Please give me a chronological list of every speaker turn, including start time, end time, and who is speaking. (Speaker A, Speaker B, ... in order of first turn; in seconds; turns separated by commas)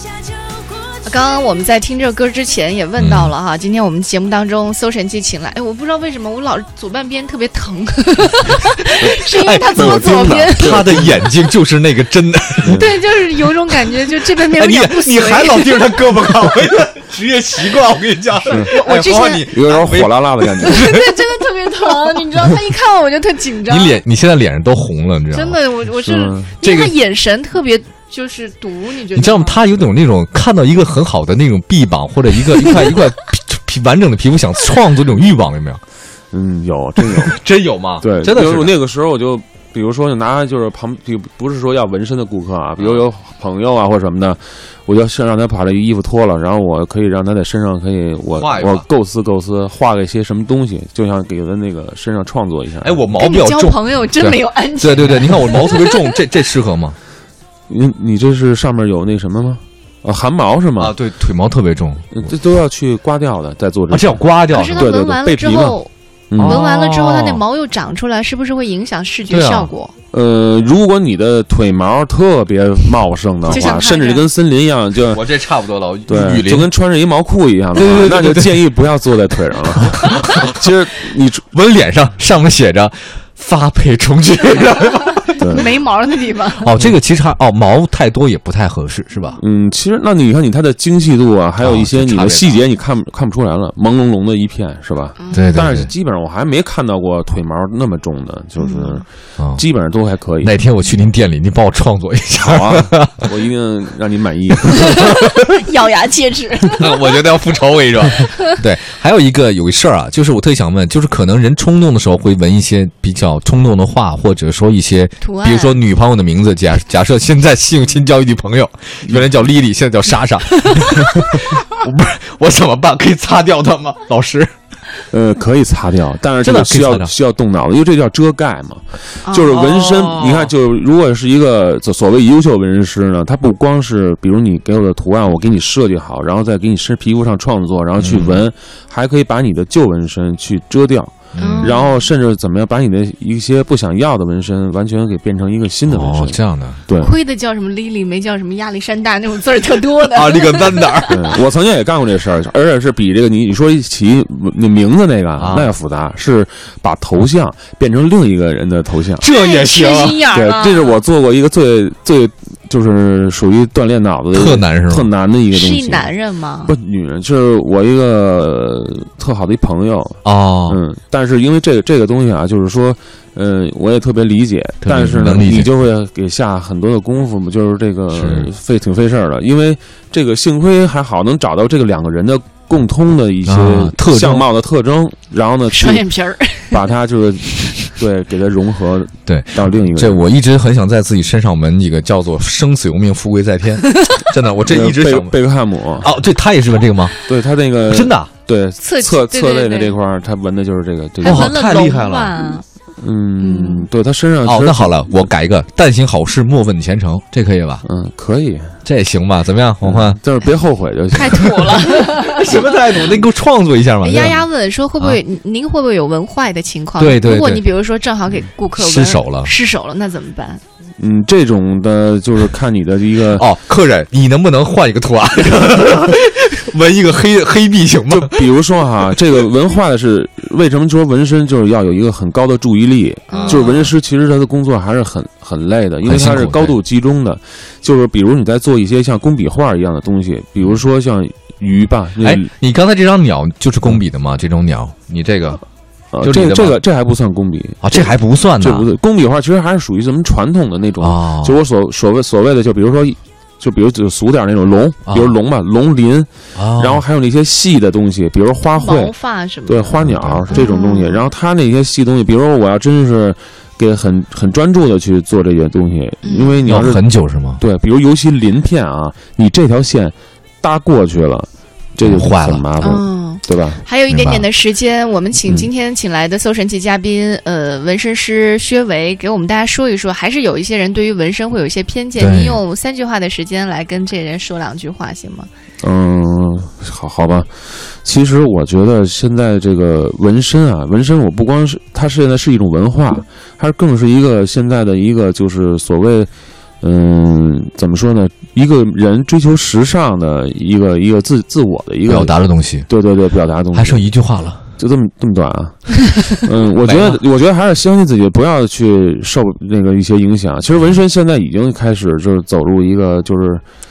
Speaker A: 0.8-11.0, Speaker B: 3.0-3.3, Speaker B: 9.4-12.9, Speaker C: 9.7-11.2, Speaker C: 12.6-13.0, Speaker A: 12.7-15.9, Speaker B: 13.7-21.1, Speaker A: 18.5-19.5, Speaker C: 19.5-20.9, Speaker A: 20.6-24.0, Speaker B: 23.7-25.6, Speaker A: 25.3-29.6, Speaker C: 26.0-26.5, Speaker B: 26.6-26.9, Speaker B: 29.1-35.8, Speaker C: 36.3-37.4, Speaker B: 37.1-38.7, Speaker C: 38.0-53.0, Speaker B: 48.3-48.9, Speaker B: 52.8-57.0, Speaker A: 53.1-56.2, Speaker C: 57.7-61.0, Speaker B: 60.8-62.2, Speaker C: 62.1-64.2, Speaker B: 63.9-64.9, Speaker A: 64.5-69.9, Speaker C: 64.8-65.8, Speaker C: 66.3-66.6, Speaker B: 66.4-67.4, Speaker B: 69.3-69.7, Speaker C: 70.1-75.2, Speaker A: 73.5-74.2, Speaker B: 73.5-73.8, Speaker B: 75.0-76.7, Speaker C: 76.1-81.5, Speaker B: 77.8-78.6, Speaker B: 79.9-80.5, Speaker B: 81.5-85.7, Speaker C: 85.4-85.7, Speaker A: 85.5-86.7, Speaker B: 86.6-89.4, Speaker C: 89.4-99.0, Speaker B: 91.6-92.6, Speaker A: 95.2-95.6, Speaker B: 95.3-95.9, Speaker A: 98.6-99.0, Speaker B: 99.4-99.6, Speaker C: 99.6-100.5, Speaker B: 100.4-103.3, Speaker C: 102.3-105.1, Speaker A: 104.6-107.0, Speaker B: 104.8-105.4, Speaker B: 106.8-124.5, Speaker A: 115.2-115.8, Speaker C: 125.1-147.1, Speaker B: 126.4-127.1, Speaker A: 129.2-129.6, Speaker B: 129.5-130.5, Speaker B: 138.0-138.5, Speaker B: 141.3-141.8, Speaker A: 141.4-142.0, Speaker B: 145.8-146.8, Speaker A: 147.0-151.2, Speaker B: 150.1-151.1, Speaker C: 151.1-159.2, Speaker B: 155.4-155.7, Speaker B: 159.2-160.3, Speaker A: 159.2-161.0, Speaker C: 160.3-166.1, Speaker B: 164.3-165.1, Speaker A: 165.5-166.8, Speaker C: 166.6-186.1, Speaker B: 170.2-170.8, Speaker B: 174.8-175.7, Speaker B: 178.1-178.5, Speaker B: 183.4-184.5, Speaker A: 185.7-186.8, Speaker C: 186.7-190.2, Speaker A: 187.5-188.0, Speaker B: 189.3-195.4, Speaker C: 194.7-196.1, Speaker B: 196.0-197.2, Speaker C: 197.3-201.5, Speaker B: 197.9-198.3, Speaker A: 198.8-200.0, Speaker B: 201.2-202.6, Speaker A: 201.2-202.6, Speaker C: 203.0-205.0, Speaker A: 203.4-203.9, Speaker B: 204.4-207.8, Speaker C: 207.8-208.8, Speaker B: 208.8-210.2, Speaker C: 209.8-211.8, Speaker A: 211.1-212.7, Speaker B: 212.0-214.4, Speaker A: 214.0-220.6, Speaker B: 217.0-217.6, Speaker B: 218.8-219.5, Speaker C: 221.0-223.5, Speaker B: 223.2-228.4, Speaker C: 228.1-242.5, Speaker A: 233.3-233.6, Speaker B: 233.3-233.9, Speaker B: 236.0-236.8, Speaker B: 242.2-245.6, Speaker C: 246.1-259.1, Speaker B: 246.2-246.8, Speaker B: 247.8-248.9, Speaker B: 251.0-251.6, Speaker B: 255.1-255.3, Speaker B: 256.6-257.0, Speaker A: 258.8-261.2, Speaker C: 259.6-267.1, Speaker B: 260.0-260.7, Speaker A: 266.2-266.7, Speaker B: 266.6-267.6, Speaker C: 267.6-273.8, Speaker B: 272.0-272.6, Speaker A: 272.8-285.5, Speaker B: 274.1-274.4, Speaker B: 282.2-282.6, Speaker C: 285.8-296.3, Speaker C: 296.8-304.1, Speaker B: 302.1-302.9, Speaker B: 303.7-304.6, Speaker C: 304.8-313.6, Speaker B: 306.8-307.2